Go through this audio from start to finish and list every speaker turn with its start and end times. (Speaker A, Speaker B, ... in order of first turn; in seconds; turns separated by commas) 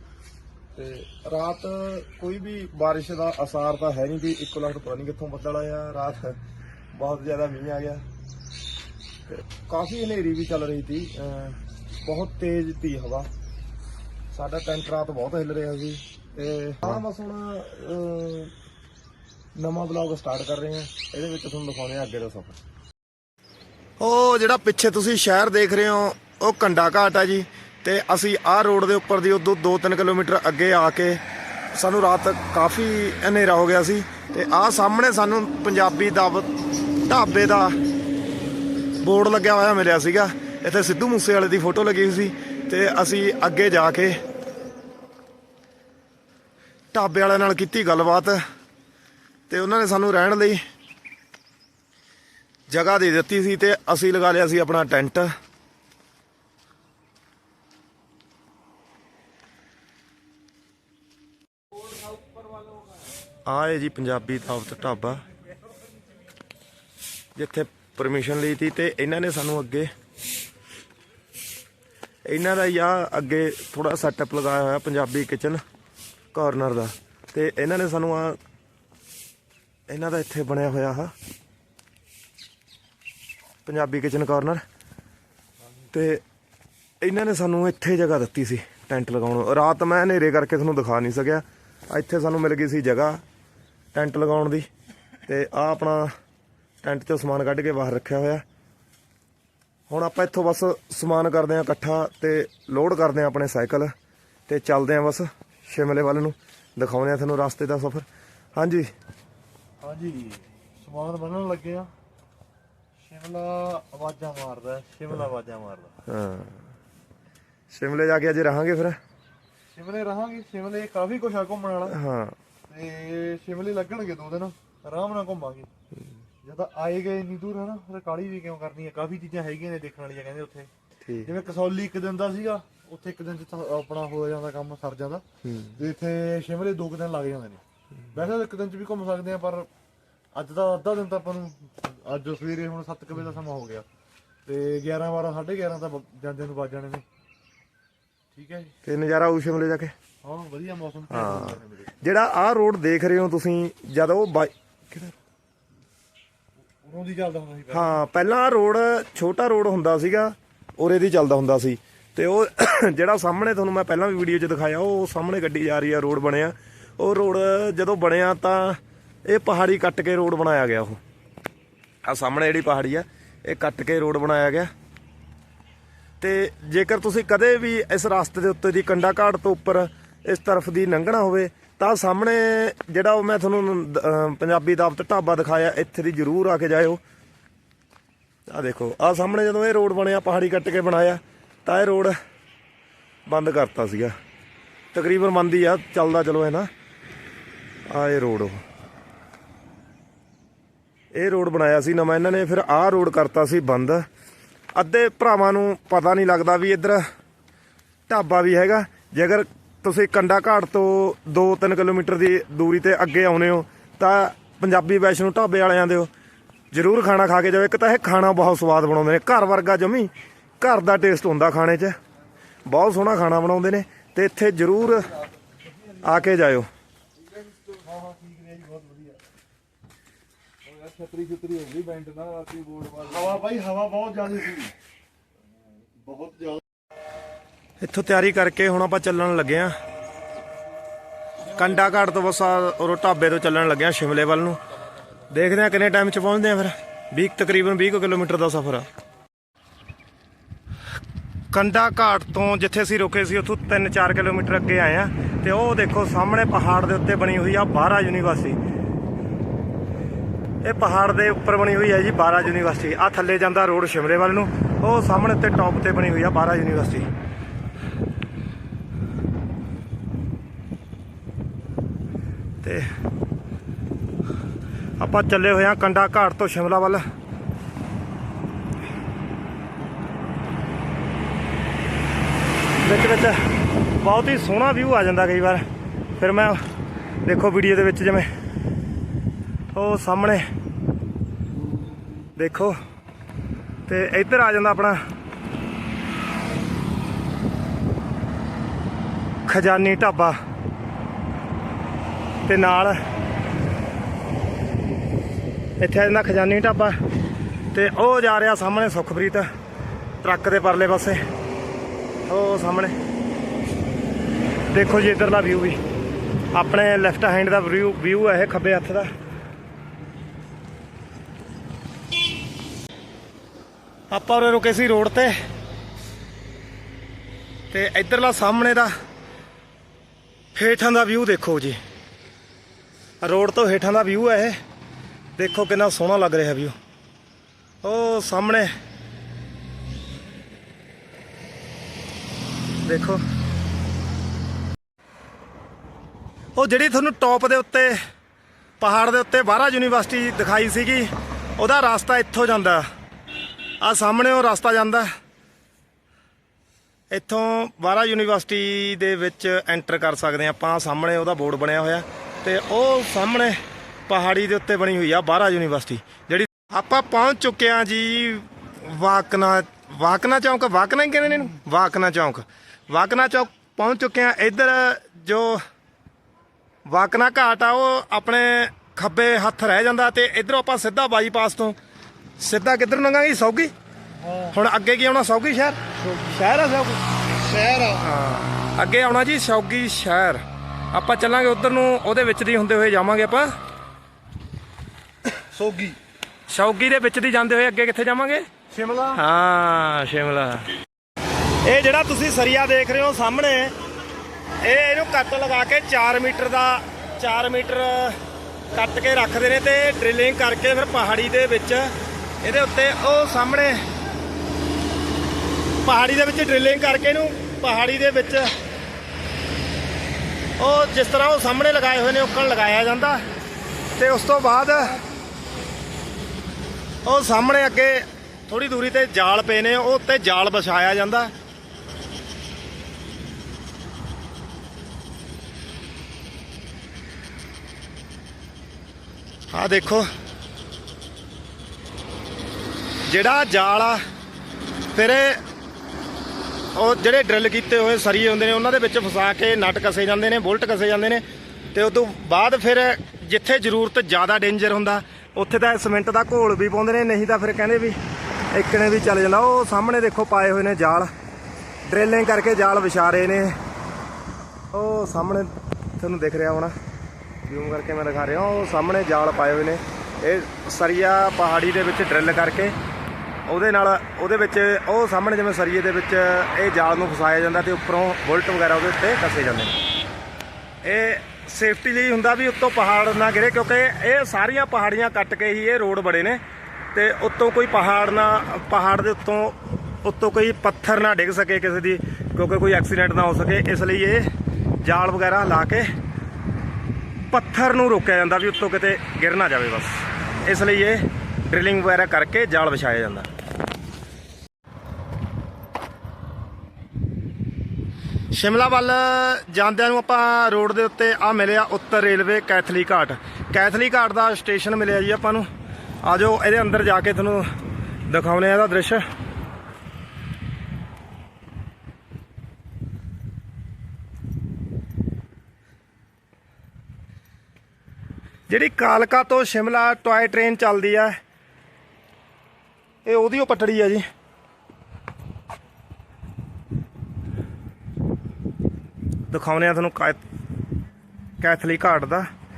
Speaker A: 0.8-6.4, Speaker A: 6.9-8.0, Speaker A: 9.3-13.3, Speaker A: 14.3-18.5, Speaker A: 19.6-22.6, Speaker A: 24.0-31.2, Speaker A: 31.7-36.5, Speaker A: 37.1-37.8, Speaker A: 39.0-44.2, Speaker A: 46.9-48.4, Speaker A: 49.5-50.6, Speaker A: 52.7-55.3, Speaker A: 63.5-65.2, Speaker A: 67.4-69.9, Speaker A: 72.3-75.6, Speaker A: 76.3-78.4, Speaker A: 79.9-81.1, Speaker A: 83.7-84.6, Speaker A: 85.9-86.2, Speaker A: 87.0-93.2, Speaker A: 93.9-94.7, Speaker A: 95.3-96.1, Speaker A: 96.8-98.4, Speaker A: 99.9-103.9, Speaker A: 104.5-108.9, Speaker B: 109.8-111.9, Speaker B: 113.0-115.9, Speaker A: 116.1-116.6, Speaker A: 117.7-119.0, Speaker B: 119.8-122.0, Speaker A: 121.9-122.4, Speaker B: 122.7-125.7, Speaker B: 126.4-130.7, Speaker A: 131.0-131.3, Speaker B: 131.2-139.7, Speaker A: 135.4-135.8, Speaker B: 140.3-143.9, Speaker B: 144.5-147.0, Speaker B: 148.3-148.7, Speaker A: 148.8-149.9, Speaker B: 150.2-151.9, Speaker A: 151.1-155.1, Speaker B: 156.8-158.0, Speaker A: 157.7-171.0, Speaker A: 172.1-174.7, Speaker A: 176.2-187.0, Speaker A: 188.5-192.2, Speaker A: 193.3-194.1, Speaker A: 194.9-196.7, Speaker A: 197.9-198.6, Speaker A: 201.2-204.0, Speaker A: 204.8-207.0, Speaker A: 208.1-216.1, Speaker A: 216.7-221.9, Speaker A: 222.7-225.1, Speaker A: 226.0-226.7, Speaker B: 227.4-229.2, Speaker B: 230.7-234.7, Speaker B: 236.1-236.6, Speaker A: 237.8-239.8, Speaker A: 241.6-244.6, Speaker A: 245.3-248.9, Speaker A: 251.5-258.6, Speaker A: 260.6-267.1, Speaker A: 275.0-277.1, Speaker A: 282.8-283.5, Speaker A: 284.0-285.6, Speaker A: 286.2-286.6, Speaker A: 287.2-288.3, Speaker A: 289.7-290.4, Speaker A: 292.4-292.8, Speaker A: 293.9-295.0, Speaker A: 299.5-300.4, Speaker A: 302.4-303.0, Speaker A: 305.8-306.9, Speaker A: 307.7-309.5, Speaker A: 310.2-311.2, Speaker A: 312.3-312.9, Speaker A: 314.7-315.8, Speaker A: 316.5-319.1, Speaker A: 324.1-325.3, Speaker A: 327.7-328.9, Speaker A: 330.5-331.8, Speaker A: 333.2-334.6, Speaker A: 335.4-336.8, Speaker A: 337.8-338.7, Speaker A: 342.8-343.2, Speaker A: 346.6-348.0, Speaker A: 348.8-352.8, Speaker A: 353.8-355.1, Speaker A: 357.1-375.6, Speaker A: 376.9-381.8, Speaker A: 382.4-383.7, Speaker B: 384.2-384.6, Speaker A: 384.5-387.0, Speaker B: 387.5-387.9, Speaker A: 387.8-393.5, Speaker B: 395.4-396.0, Speaker A: 396.5-398.4, Speaker B: 398.7-399.2, Speaker A: 399.2-400.7, Speaker A: 401.6-403.7, Speaker A: 404.6-408.2, Speaker A: 408.7-411.9, Speaker A: 412.4-413.8, Speaker A: 415.8-418.5, Speaker A: 420.6-423.2, Speaker A: 424.0-425.0, Speaker A: 427.1-431.3, Speaker A: 439.5-440.1, Speaker A: 443.1-444.0, Speaker A: 444.9-445.4, Speaker A: 446.8-458.0, Speaker A: 458.5-461.1, Speaker A: 461.9-463.6, Speaker A: 464.7-466.7, Speaker A: 467.4-472.8, Speaker A: 473.5-479.7, Speaker A: 480.8-486.4, Speaker A: 486.9-494.3, Speaker A: 494.8-495.9, Speaker A: 497.3-503.3, Speaker A: 508.3-515.5, Speaker A: 516.0-517.4, Speaker A: 518.1-519.0, Speaker A: 528.5-531.2, Speaker A: 533.0-534.0, Speaker A: 539.3-540.2, Speaker A: 541.4-542.3